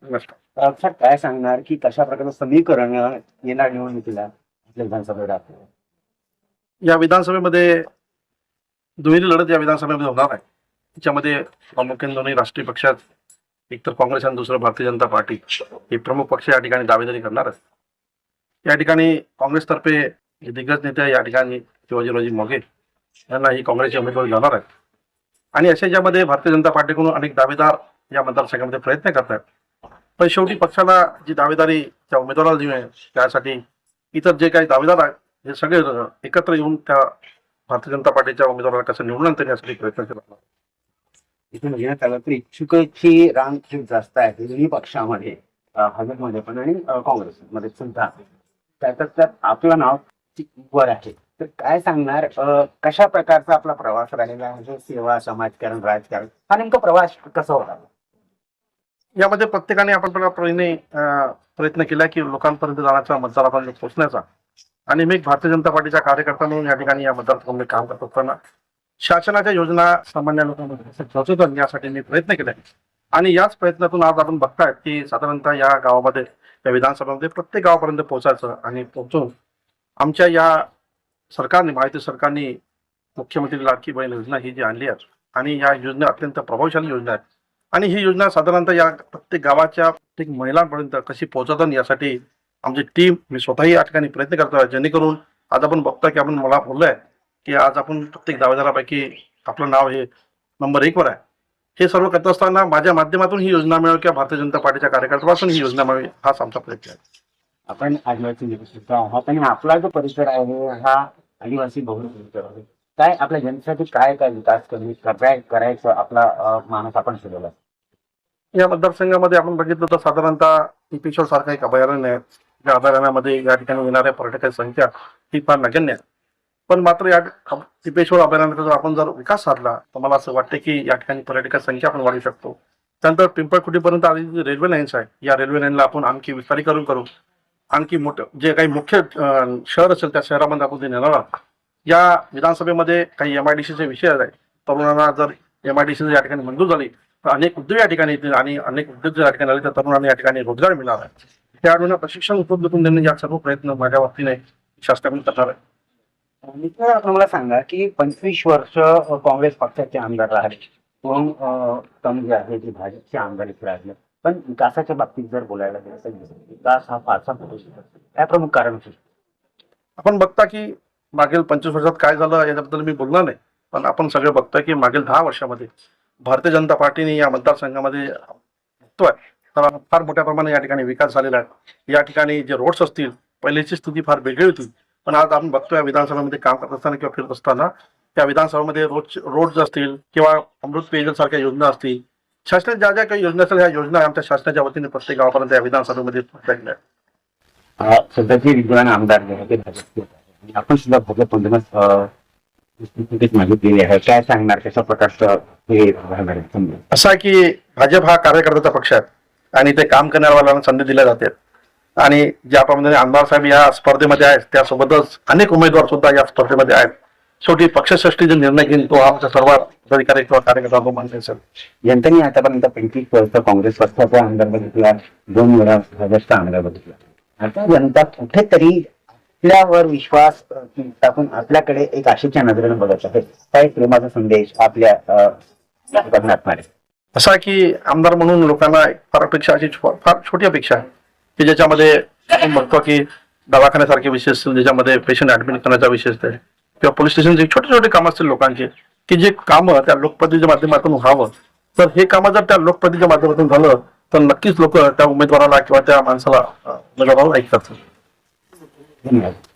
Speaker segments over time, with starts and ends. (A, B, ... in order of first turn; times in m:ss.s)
0:00.1-0:00.3 A
0:00.6-0:05.7 B
0:06.9-0:07.9 A
0:09.0-0:10.4 A
0:11.0-0:13.0 A
0:13.7-0:17.5 A
0:18.7-0:22.6 A
0:23.3-0:24.6 A
0:25.6-0:29.4 A
0:30.2-0:33.6 A
0:34.1-0:37.1 A
0:37.7-0:40.4 A
0:41.5-0:48.3 B
0:48.8-0:57.9 B
0:59.2-1:04.2 A
1:04.9-1:08.4 A
1:09.0-1:12.6 A
1:13.2-1:19.3 A
1:20.0-1:20.7 A
1:21.3-1:22.6 A
1:23.2-1:27.2 A
1:27.7-1:40.1 A
1:40.6-1:41.2 A
1:41.8-1:47.0 A
1:47.7-1:57.5 B
1:58.6-2:06.0 A
2:06.7-2:17.1 A
2:17.7-2:21.3 A
2:21.9-2:31.1 A
2:31.6-2:35.6 A
2:36.4-2:49.0 B
2:50.0-2:55.7 A
2:56.2-2:58.3 A
2:59.0-3:16.8 A
3:17.8-3:22.1 B
3:22.8-3:26.8 B
3:26.9-3:29.0 A
3:29.6-3:31.3 A
3:32.0-3:41.4 A
3:41.8-3:48.9 B
3:49.4-3:55.4 B
3:55.9-3:56.7 B
3:57.2-4:00.8 A
4:01.4-4:17.8 A
4:19.0-4:19.4 B